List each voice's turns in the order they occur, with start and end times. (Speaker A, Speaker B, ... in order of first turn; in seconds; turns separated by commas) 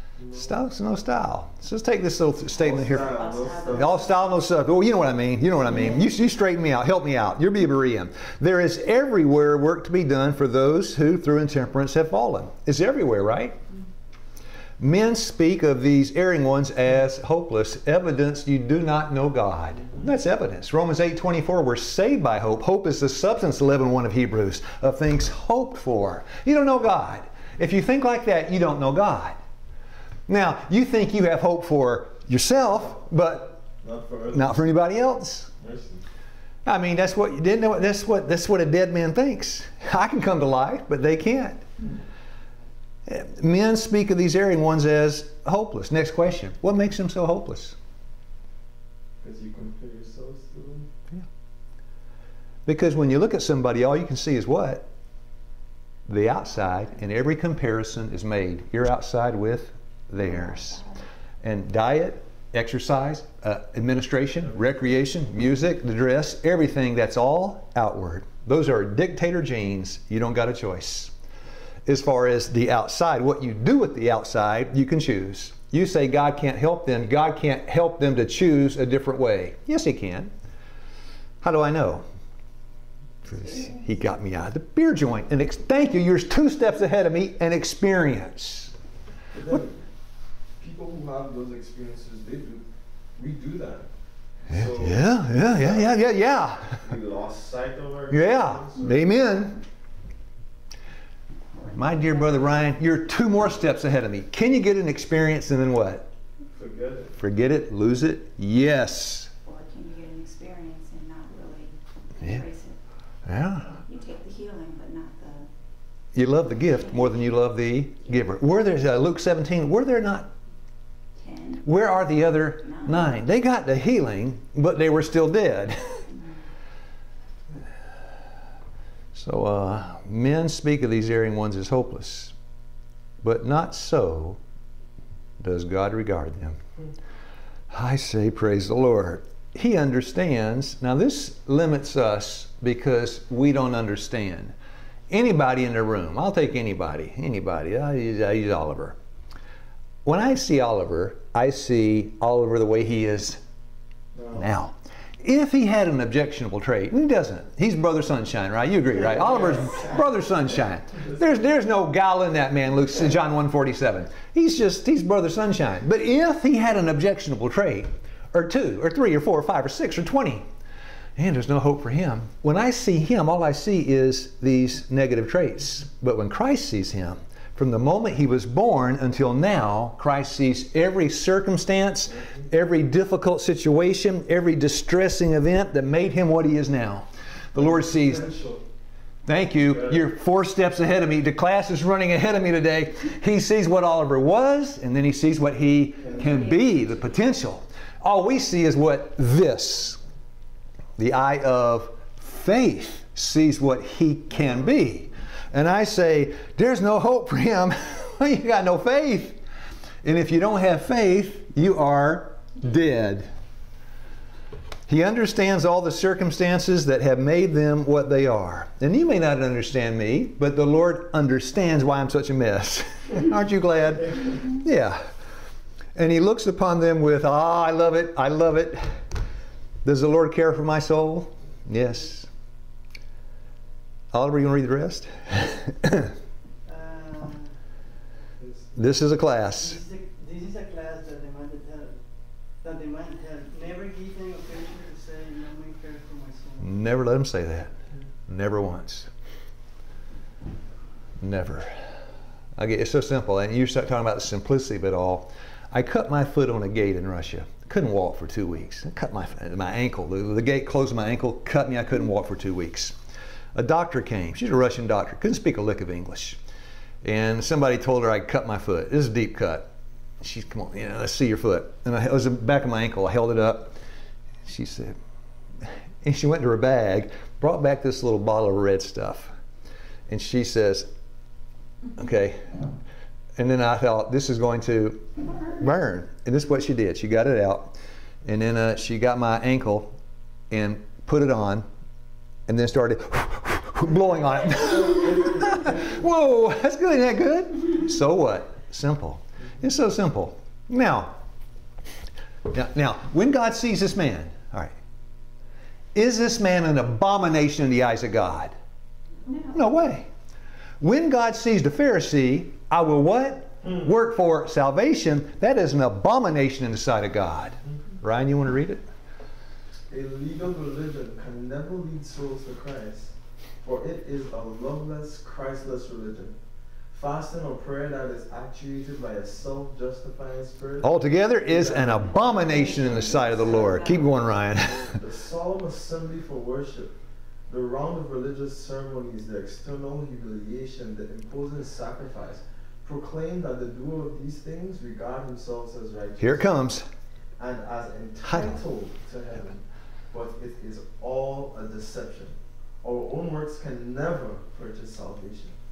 Speaker A: 0.2-0.4, Speaker B: 0.3-3.1, Speaker A: 2.5-4.0, Speaker C: 2.6-4.2, Speaker B: 3.7-13.6, Speaker C: 5.7-6.0, Speaker B: 14.8-29.4, Speaker B: 30.3-33.5, Speaker A: 33.8-34.6, Speaker B: 34.3-35.5, Speaker A: 35.6-36.0, Speaker B: 36.6-41.6, Speaker B: 43.0-47.8, Speaker A: 49.2-50.9, Speaker B: 52.7-54.9, Speaker B: 56.1-60.8, Speaker C: 60.2-61.0, Speaker B: 61.4-71.1, Speaker B: 71.8-80.3, Speaker B: 81.4-82.0, Speaker B: 83.3-88.7, Speaker C: 83.3-83.7, Speaker A: 89.3-89.8, Speaker A: 90.6-92.6, Speaker A: 93.2-93.9, Speaker A: 94.4-96.0, Speaker B: 94.5-96.9, Speaker A: 96.8-99.0, Speaker B: 98.1-99.6, Speaker C: 101.5-102.7, Speaker B: 101.7-106.1, Speaker A: 106.5-107.2, Speaker B: 107.2-109.3, Speaker C: 109.4-112.8, Speaker B: 113.2-113.8, Speaker C: 113.7-115.5, Speaker B: 116.1-120.3, Speaker C: 116.6-117.2, Speaker C: 121.2-121.9, Speaker B: 121.6-126.0, Speaker C: 122.6-123.2, Speaker B: 129.1-132.3, Speaker B: 133.2-134.4, Speaker B: 135.4-136.6, Speaker B: 137.7-144.5, Speaker B: 145.1-148.9, Speaker B: 150.0-153.4, Speaker A: 154.1-154.5, Speaker B: 154.3-170.4, Speaker A: 159.0-160.0, Speaker B: 171.2-188.2, Speaker A: 187.5-188.6, Speaker B: 189.2-200.0, Speaker A: 189.7-190.0, Speaker A: 196.0-196.3, Speaker C: 196.2-197.1, Speaker B: 201.0-209.4, Speaker B: 210.0-213.3, Speaker B: 214.9-225.1, Speaker B: 225.9-229.0, Speaker B: 229.8-232.3, Speaker B: 234.1-236.1, Speaker D: 236.7-237.6, Speaker A: 238.4-238.8, Speaker B: 238.8-239.8, Speaker D: 239.5-246.8, Speaker B: 246.6-247.7, Speaker B: 248.3-249.1, Speaker B: 251.2-251.8, Speaker B: 252.6-262.9, Speaker B: 263.5-266.4, Speaker B: 267.0-269.7, Speaker B: 270.2-273.8, Speaker B: 274.4-274.9, Speaker B: 275.6-279.3, Speaker B: 280.1-280.9, Speaker B: 282.0-282.6, Speaker B: 283.4-289.9, Speaker B: 290.5-291.6, Speaker B: 292.5-301.2, Speaker B: 302.5-304.7, Speaker B: 305.9-308.5, Speaker C: 309.2-309.7, Speaker B: 309.5-310.1, Speaker B: 310.8-318.8, Speaker A: 319.9-326.4, Speaker A: 326.9-334.0, Speaker B: 330.8-335.0, Speaker C: 332.1-334.3, Speaker A: 334.7-336.9, Speaker A: 337.5-346.7, Speaker B: 346.2-346.9, Speaker A: 347.4-355.5, Speaker B: 348.2-348.6